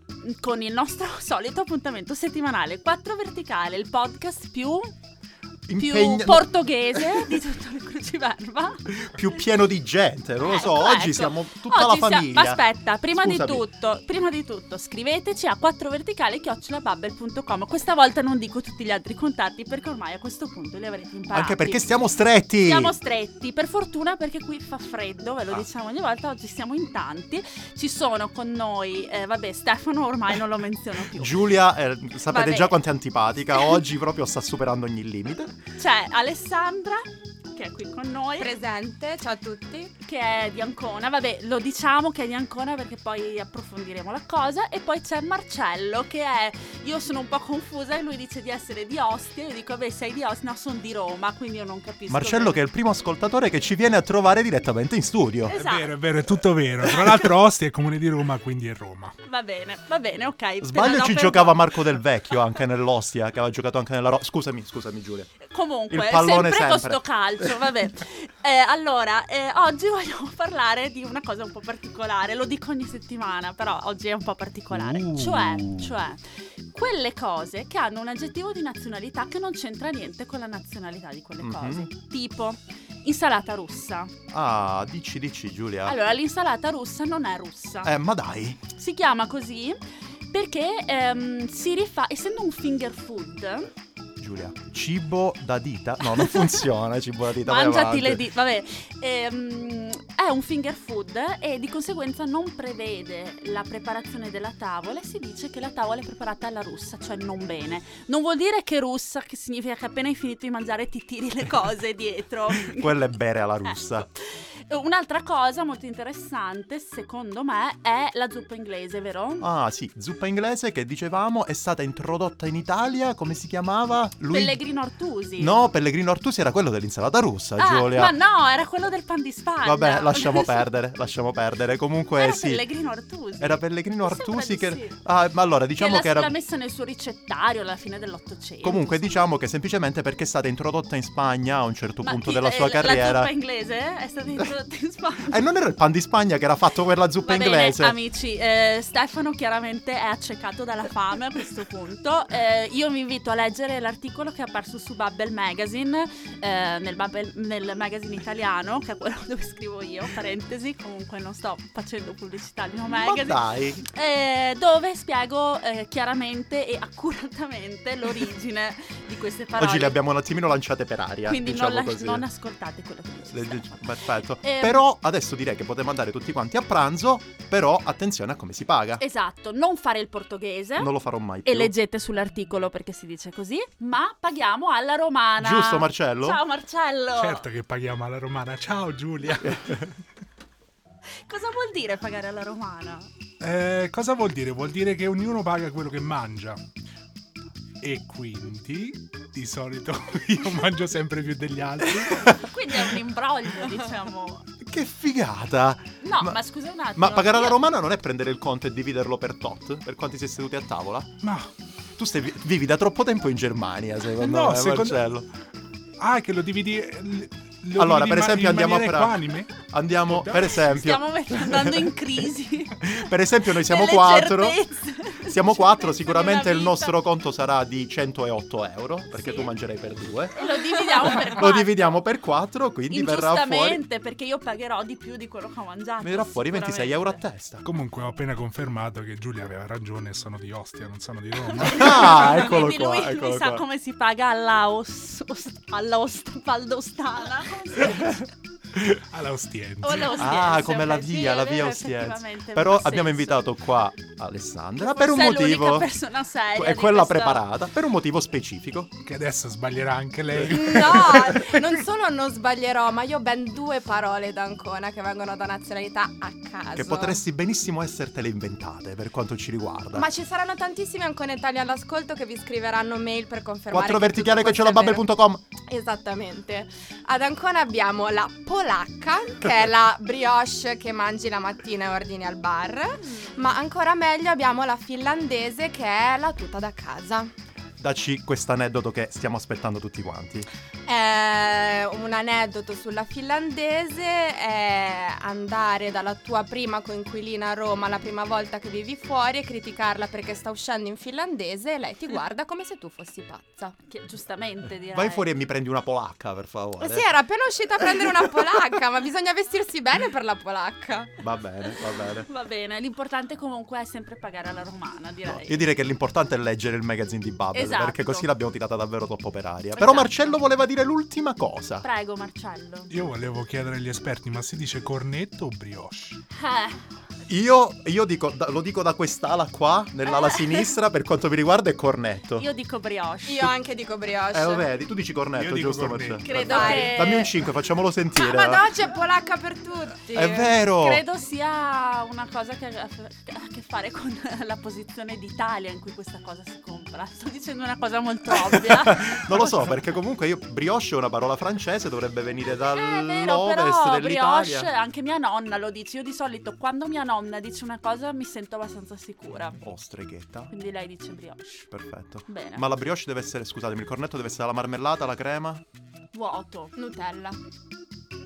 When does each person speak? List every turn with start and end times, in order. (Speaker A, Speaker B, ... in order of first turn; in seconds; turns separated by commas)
Speaker A: 0.2-4.9, Speaker B: 5.7-7.0, Speaker A: 5.8-8.9, Speaker B: 8.9-13.7, Speaker A: 10.4-22.0, Speaker B: 21.3-22.9, Speaker A: 22.6-31.4, Speaker B: 31.1-35.5, Speaker A: 32.3-32.8, Speaker A: 33.5-33.8, Speaker A: 35.8-38.5, Speaker C: 38.4-39.9, Speaker A: 40.0-52.6, Speaker B: 52.1-55.5, Speaker A: 55.5-55.9, Speaker D: 55.5-59.1, Speaker A: 59.2-61.7, Speaker B: 60.6-65.3, Speaker A: 65.4-84.1, Speaker B: 65.9-67.5, Speaker B: 74.7-76.0, Speaker B: 81.4-81.9, Speaker B: 84.3-86.0, Speaker A: 85.8-87.9, Speaker B: 87.8-88.6, Speaker A: 88.7-93.7, Speaker B: 94.2-98.2, Speaker A: 96.1-96.6, Speaker A: 97.4-112.9, Speaker B: 112.5-114.1, Speaker A: 113.7-119.5, Speaker B: 119.4-124.6, Speaker A: 124.3-125.6, Speaker B: 125.4-128.1, Speaker A: 127.6-130.7, Speaker B: 129.6-132.7, Speaker A: 132.2-134.9, Speaker B: 133.4-136.3, Speaker A: 135.8-139.1, Speaker B: 138.6-143.3, Speaker A: 142.0-145.4, Speaker B: 145.3-148.0, Speaker A: 147.2-170.0, Speaker B: 162.9-163.8, Speaker B: 169.6-172.2, Speaker A: 171.2-173.9, Speaker B: 173.3-179.0, Speaker A: 174.4-174.8, Speaker A: 179.0-180.9, Speaker B: 180.8-181.7, Speaker A: 181.4-187.5, Speaker B: 185.4-186.4, Speaker D: 187.2-189.9, Speaker A: 191.2-193.1, Speaker D: 193.4-196.6, Speaker D: 197.8-202.3, Speaker A: 202.2-204.4, Speaker B: 204.6-206.4, Speaker A: 206.0-207.6, Speaker B: 206.9-211.1, Speaker D: 211.2-211.5, Speaker B: 212.0-215.3, Speaker D: 214.2-215.0, Speaker D: 216.0-220.6, Speaker B: 217.8-222.0, Speaker A: 220.6-222.9, Speaker B: 222.8-224.6, Speaker A: 223.6-226.9, Speaker B: 225.3-230.4, Speaker A: 229.1-229.5, Speaker A: 230.3-231.7, Speaker B: 231.0-233.8, Speaker A: 232.9-237.2, Speaker B: 236.0-237.6, Speaker D: 237.6-242.4, Speaker A: 241.5-248.3, Speaker B: 241.6-243.6, Speaker D: 248.9-250.2, Speaker A: 249.8-253.4, Speaker B: 250.1-255.9, Speaker A: 254.8-257.4, Speaker B: 256.5-258.9, Speaker D: 259.0-261.4, Speaker C: 260.4-267.2, Speaker B: 266.8-270.1, Speaker C: 269.9-275.0, Speaker B: 273.7-275.4, Speaker C: 275.7-287.3, Speaker A: 283.0-283.5, Speaker B: 287.8-290.5, Speaker C: 290.9-303.7, Speaker A: 303.9-305.3, Speaker B: 304.9-307.1, Speaker C: 306.8-311.1, Speaker B: 311.2-312.3, Speaker A: 311.6-315.7, Speaker B: 315.2-321.9, Speaker A: 317.5-318.3, Speaker A: 319.8-320.3, Speaker A: 321.8-322.9, Speaker D: 322.9-326.2, Speaker A: 326.3-326.8, Speaker B: 327.3-332.5, Speaker A: 330.1-330.6, Speaker A: 332.4-333.4, Speaker C: 333.2-334.7, Speaker B: 334.3-338.6, Speaker D: 335.3-336.4, Speaker A: 336.2-337.3, Speaker C: 336.3-337.2, Speaker C: 338.1-340.5, Speaker B: 340.1-341.0, Speaker A: 340.8-349.3, Speaker B: 348.5-354.7, Speaker A: 352.6-359.6, Speaker B: 359.6-360.5, Speaker A: 360.5-361.7, Speaker B: 361.7-365.6, Speaker A: 362.3-362.6, Speaker A: 366.1-366.7, Speaker C: 366.8-367.4